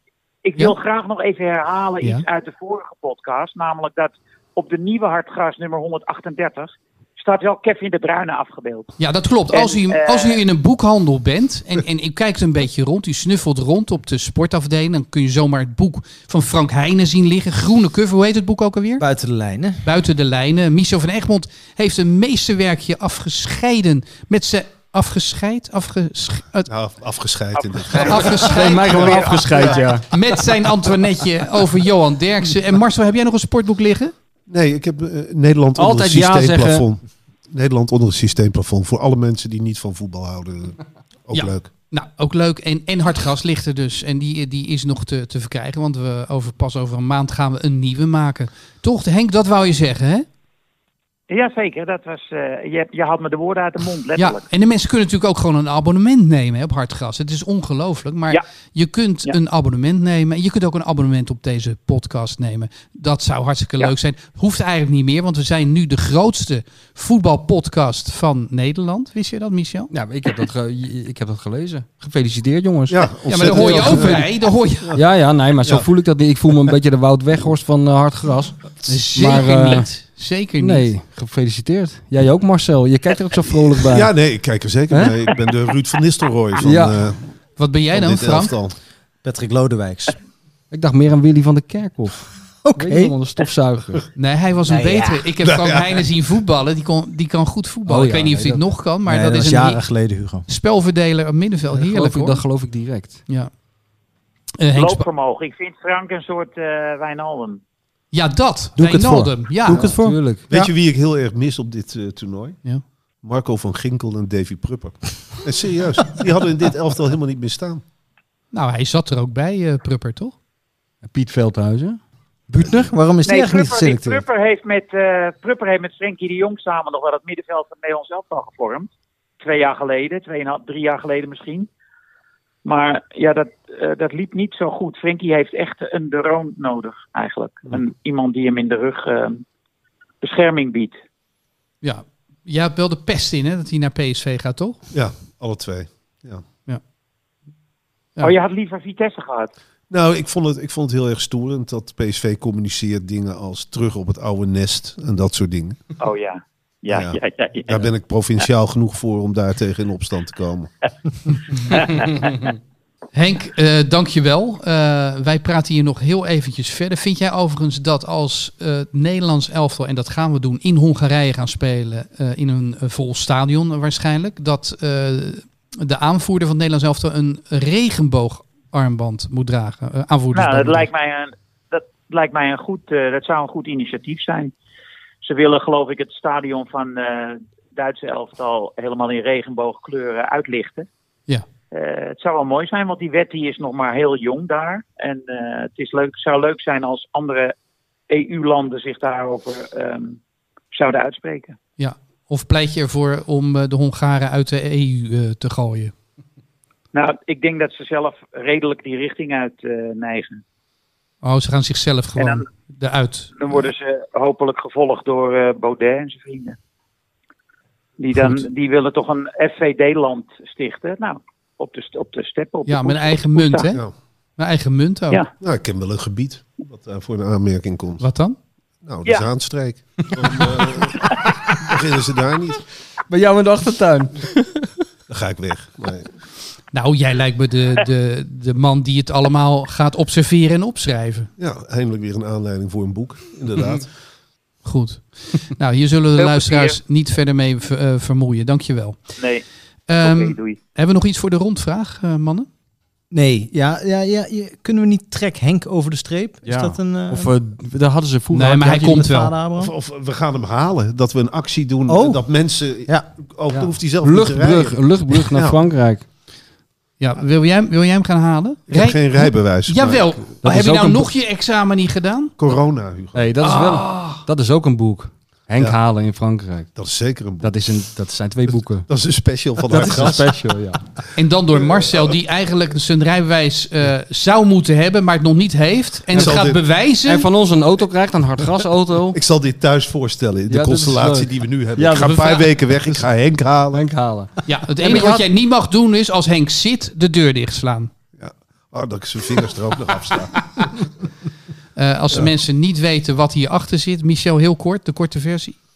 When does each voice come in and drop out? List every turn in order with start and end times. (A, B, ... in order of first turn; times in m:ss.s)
0:00.4-0:08.9 A
0:09.0-0:19.0 B
0:09.5-0:10.4 A
0:19.0-0:19.8 C
0:19.8-0:26.7 B
0:26.7-0:29.8 D
0:27.5-0:29.9 A
0:28.0-0:29.5 B
0:28.4-0:30.1 E
0:30.1-0:34.1 B
0:34.5-0:41.7 D
0:35.8-0:36.8 E
0:41.3-0:50.3 B
0:51.3-0:54.4 A
0:54.2-1:09.9 B
1:09.9-1:14.3 E
1:12.9-1:15.0 D
1:13.3-1:14.9 B
1:15.0-1:19.9 E
1:15.6-1:15.9 D
1:18.9-1:20.9 B
1:20.6-1:24.4 E
1:23.5-1:27.3 D
1:24.9-1:25.2 E
1:26.6-1:27.1 E
1:27.6-1:28.6 B
1:27.9-1:28.8 D
1:29.2-1:30.2 C
1:30.7-1:34.0 E
1:32.6-1:33.2 C
1:34.2-1:42.7 B
1:34.7-1:35.3 C
1:35.4-1:36.0 D
1:37.9-1:38.7 E
1:39.1-1:40.5 C
1:41.7-1:43.3 E
1:43.3-1:43.5 B
1:44.6-1:45.1 B
1:44.8-1:47.6 A
1:48.1-1:49.9 B
1:48.8-1:50.2 C
1:49.7-1:50.5 E
1:50.5-1:52.6 D
1:53.2-1:57.8 D
1:58.5-2:00.4 B
2:01.0-2:02.0 E
2:02.5-2:04.2 C
2:03.2-2:11.7 A
2:12.6-2:19.4 A
2:20.2-2:21.0 A
2:21.8-2:24.8 B
2:24.9-2:26.4 D
2:28.2-2:29.5 A
2:29.9-2:35.8 D
2:36.0-2:38.5 A
2:36.9-2:40.7 D
2:41.7-2:42.3 A
2:43.1-3:00.9 B
3:00.3-3:04.5 A
3:05.2-3:10.9 A
3:11.7-3:17.6 A
3:18.1-3:20.2 A
3:20.7-3:21.6 A
3:21.8-3:25.9 B
3:26.9-3:30.4 A
3:31.2-3:33.7 B
3:32.2-3:32.4 A
3:33.4-3:36.6 A
3:38.0-3:43.7 A
3:38.2-3:38.4 B
3:42.7-3:45.2 B
3:45.4-3:48.0 D
3:48.0-3:48.4 B
3:48.8-3:52.6 D
3:49.0-3:49.3 A
3:50.9-3:51.3 A
3:53.1-3:54.8 E
3:55.1-3:56.2 D
3:56.7-4:01.3 B
4:01.4-4:04.0 D
4:04.6-4:09.2 B
4:06.2-4:06.8 A
4:09.2-4:09.4 A
4:09.9-4:12.5 B
4:10.0-4:10.6 A
4:13.1-4:17.4 C
4:16.4-4:19.1 E
4:18.3-4:19.3 B
4:18.7-4:19.7 C
4:19.6-4:25.6 D
4:21.9-4:23.1 C
4:23.5-4:26.0 E
4:27.0-4:32.3 B
4:28.7-4:30.2 D
4:30.4-4:31.1 E
4:32.4-4:33.3 D
4:33.1-4:38.9 E
4:33.4-4:34.2 B
4:36.8-4:37.8 D
4:38.9-4:42.2 D
4:39.7-4:40.9 E
4:41.2-4:47.3 B
4:46.1-4:46.6 D
4:46.1-4:46.4 E
4:47.0-4:49.2 E
4:49.1-4:54.0 D
4:50.5-4:52.3 E
4:52.0-4:52.7 B
4:53.7-4:55.2 E
4:54.5-4:57.9 B
4:58.2-5:01.1 D
5:01.8-5:05.6 B